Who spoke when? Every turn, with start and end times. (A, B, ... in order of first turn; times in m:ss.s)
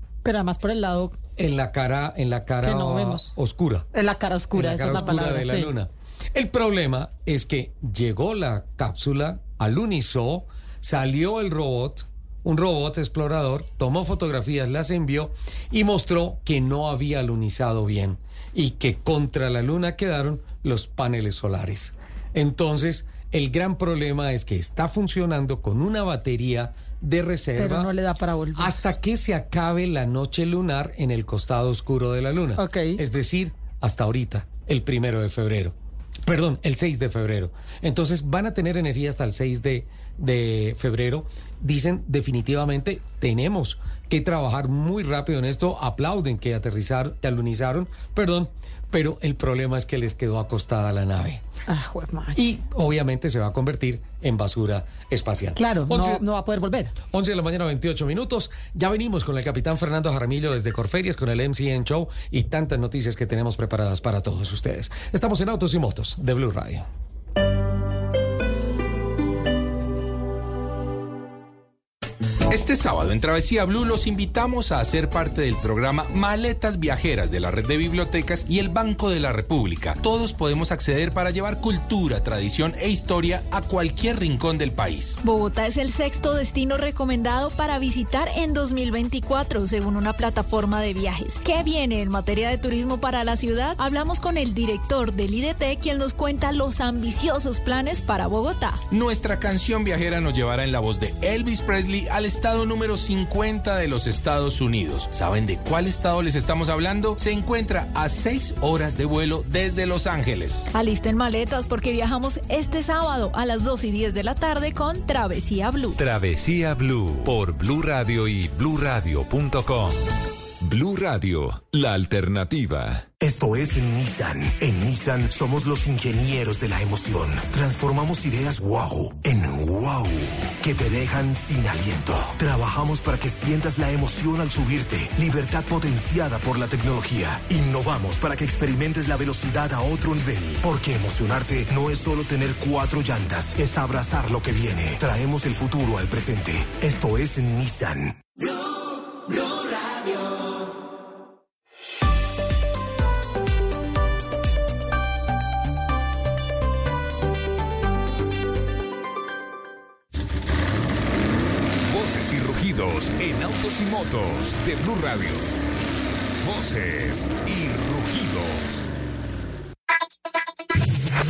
0:00.2-0:01.2 A
0:01.4-0:03.9 B
0:02.6-0:03.3 A
0:03.9-0:05.7 A
0:04.5-0:27.9 B
0:27.6-0:28.7 A
0:28.6-0:51.4 B
0:32.6-0:33.0 A
0:51.7-0:52.4 A
0:52.4-0:56.2 B
0:55.6-0:56.9 A
0:57.1-1:06.9 B
1:12.5-1:25.2 C
1:25.2-1:38.8 D
1:38.9-1:50.7 C
1:50.7-1:56.0 D
1:56.0-2:00.0 E
2:00.6-2:03.0 E
2:03.2-2:28.2 F
2:41.9-2:45.4 C
2:46.6-2:48.2 C